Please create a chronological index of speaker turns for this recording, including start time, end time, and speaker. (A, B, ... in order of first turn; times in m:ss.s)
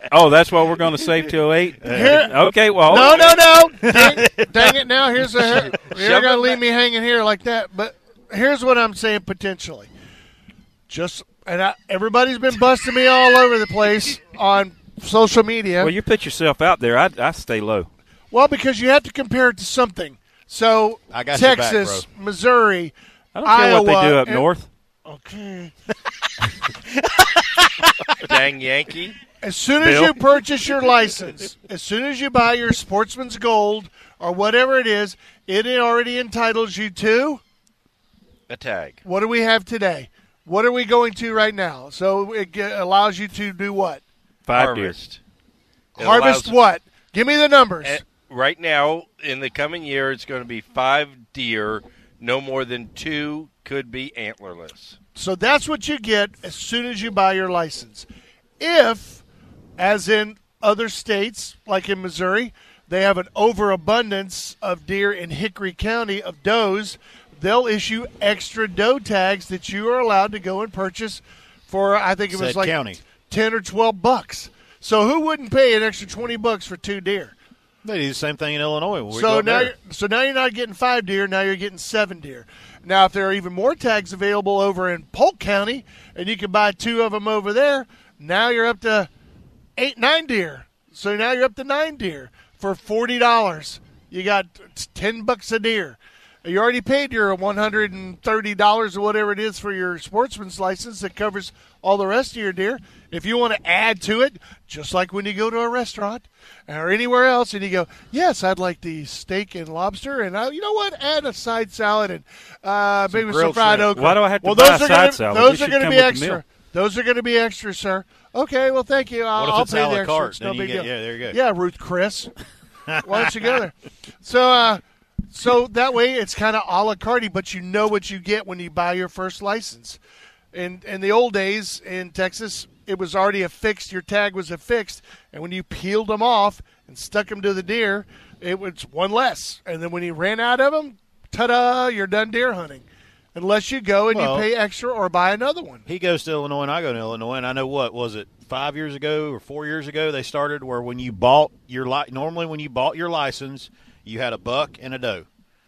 0:00.1-0:03.3 A
0:01.8-0:02.3 B
0:01.9-0:09.9 C
0:03.0-0:03.4 D
0:03.8-0:04.7 B
0:05.7-0:06.6 D
0:10.9-0:15.9 C
0:15.8-0:17.9 A
0:18.3-0:22.9 C
0:21.1-0:22.1 B
0:23.3-0:24.7 A
0:23.4-0:24.4 C
0:25.0-0:25.7 C
0:26.9-0:28.1 B
0:28.2-0:29.2 D
0:29.4-0:37.4 C
0:29.8-0:30.2 A
0:38.5-0:39.0 D
0:39.0-0:44.0 C
0:44.5-0:45.0 A
0:44.5-0:45.2 D
0:46.0-0:46.5 D
0:46.0-0:48.0 C
0:47.8-0:55.0 D
0:55.2-0:58.1 C
0:58.6-0:59.2 C
0:59.8-1:17.3 C
1:12.3-1:13.0 B
1:17.8-1:19.7 B
1:19.1-1:29.1 C
1:29.8-2:02.3 C
1:53.1-1:53.9 B
1:53.9-1:56.4 A
1:59.3-2:01.4 B
2:02.9-2:03.5 B
2:03.0-2:10.0 C
2:10.5-2:25.8 C
2:24.1-2:24.5 B
2:25.8-2:35.2 B